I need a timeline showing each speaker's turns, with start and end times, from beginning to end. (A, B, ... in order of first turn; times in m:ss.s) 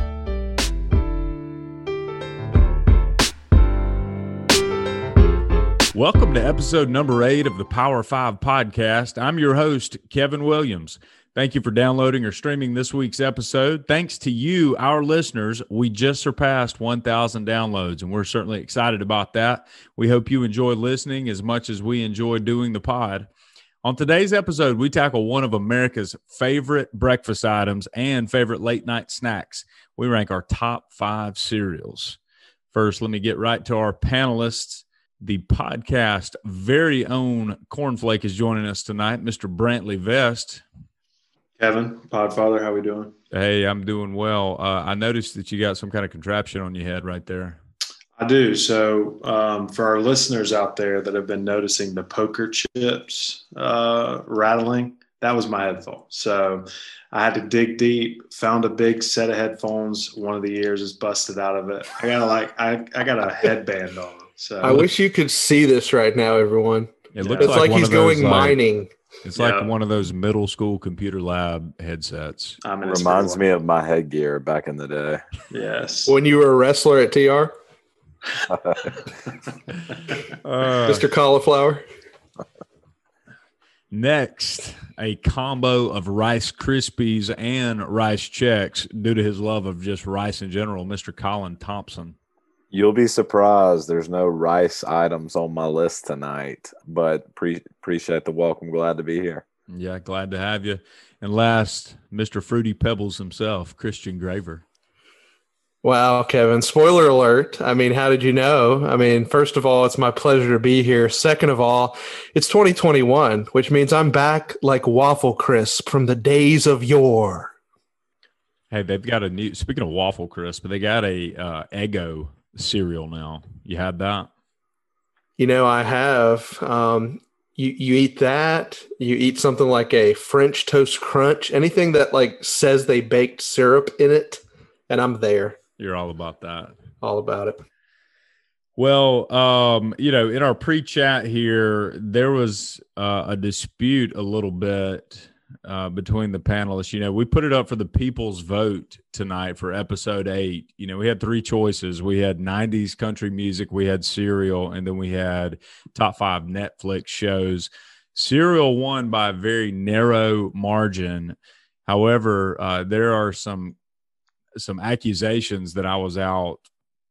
0:05.9-0:23.3 A
0:23.8-0:32.2 A
0:32.7-0:40.6 A
0:41.6-0:43.1 B
0:43.3-0:47.6 A
0:48.2-1:04.9 B
1:04.6-1:08.9 C
1:07.1-1:08.6 A
1:07.2-1:07.8 B
1:09.2-1:12.6 A
1:09.4-1:09.7 B
1:12.6-1:13.5 B
1:12.8-1:15.2 D
1:15.5-1:16.2 B
1:16.1-1:17.5 C
1:18.5-1:18.8 D
1:20.4-1:21.0 A
1:20.8-1:21.8 C
1:23.9-1:32.2 A
1:32.7-1:39.4 D
1:39.7-1:44.6 A
1:45.8-1:57.5 C
1:58.7-2:04.3 A
2:05.4-2:15.6 C
2:15.8-2:16.8 A
2:17.0-2:17.6 C
2:18.8-2:43.8 A
2:44.6-2:46.6 A